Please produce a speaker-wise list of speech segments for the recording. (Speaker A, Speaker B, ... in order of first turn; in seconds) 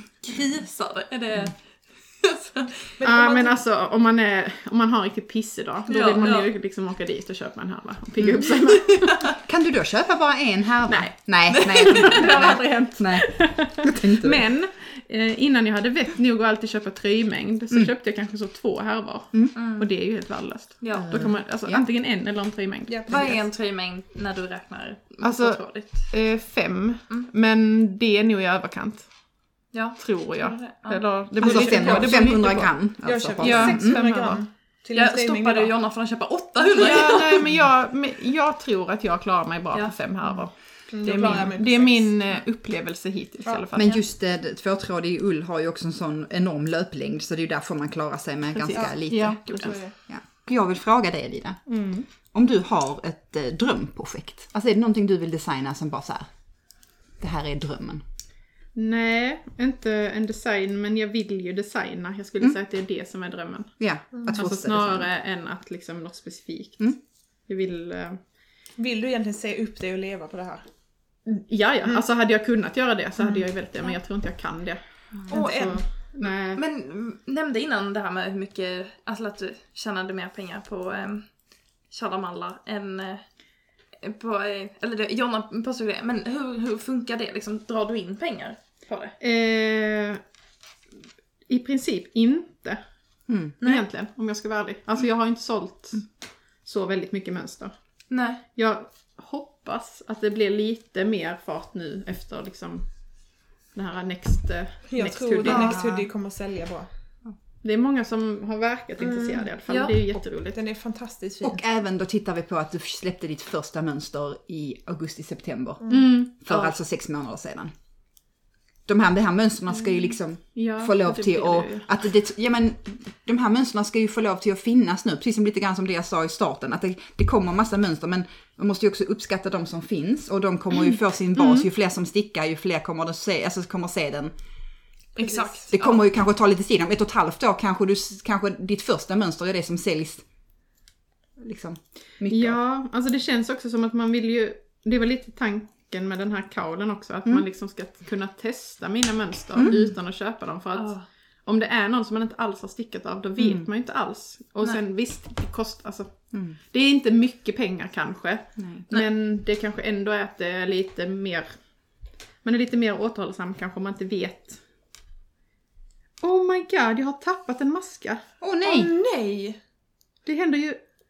Speaker A: 0.2-2.9, 5.9-6.5, 11.5-12.6, 19.5-19.9, 20.8-21.2, 23.1-26.1, 29.7-31.0, 34.9-37.5, 76.5-81.3, 81.9-83.2, 84.0-89.2, 93.6-93.8, 98.1-98.4, 109.7-110.0, 135.2-136.0, 150.7-151.0
Speaker B: 3.0-3.6, 22.9-23.4, 31.4-35.7, 36.8-37.1, 40.9-42.1, 49.5-50.0, 68.8-70.7, 75.3-75.8, 104.9-106.9, 109.0-109.5, 110.1-111.6, 115.8-116.1, 135.2-135.7, 168.6-169.6
Speaker C: 3.0-9.3, 10.9-23.3, 25.2-29.1, 30.0-32.7, 33.4-34.4, 36.6-44.0, 48.5-49.8, 51.7-52.1, 58.7-63.7, 64.3-67.0, 67.5-68.2, 71.2-76.6, 89.2-90.2, 91.5-92.8, 93.6-96.0, 96.6-97.7, 98.5-102.9, 103.7-105.9, 107.6-110.6, 115.9-116.8, 119.8-121.9, 131.4-131.7, 142.3-161.5, 162.4-164.6, 166.2-168.2, 170.2-170.8
Speaker D: 9.4-14.4, 20.9-21.8, 31.4-34.0, 43.7-51.6, 52.3-56.3, 57.2-58.0, 63.8-65.1, 93.3-93.5, 105.5-105.9, 111.4-115.8, 116.4-117.7, 118.8-134.3, 135.7-140.2, 141.4-142.6, 149.5-149.9, 153.4-153.7, 158.6-158.9, 168.4-168.9